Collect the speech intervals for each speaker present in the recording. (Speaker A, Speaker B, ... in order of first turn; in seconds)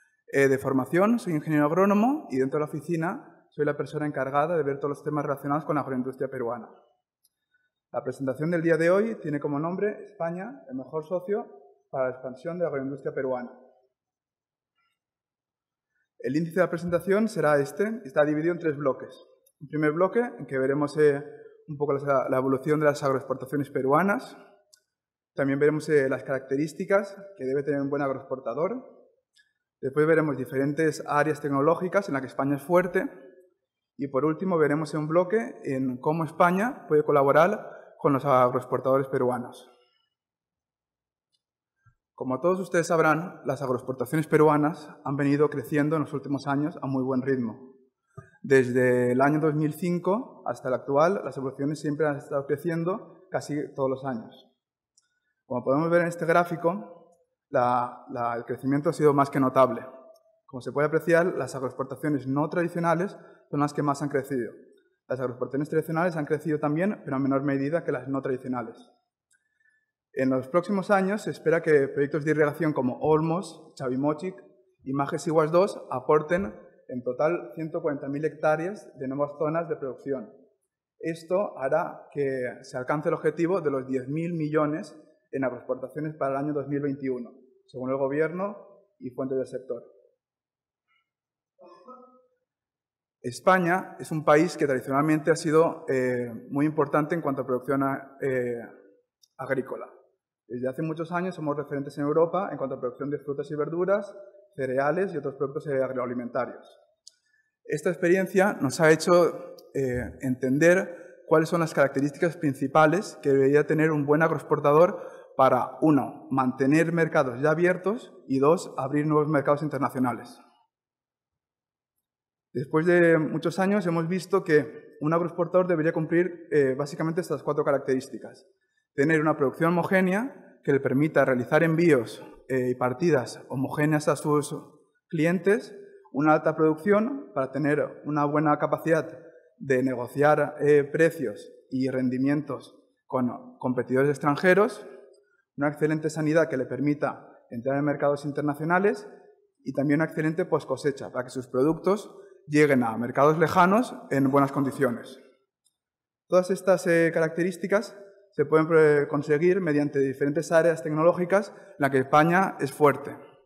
Speaker A: 0.3-6.7, 7.9-13.6, 16.2-24.4, 25.4-28.8, 29.8-33.1, 34.0-39.7, 42.2-47.7, 48.4-54.5, 55.5-57.0, 57.5-59.9, 60.5-64.6, 65.1-68.9, 70.1-80.3, 81.0-89.9, 93.2-98.7, 99.4-99.9, 100.5-106.8, 107.7-120.4, 122.5-144.8, 145.6-149.1, 149.6-155.2, 156.3-163.2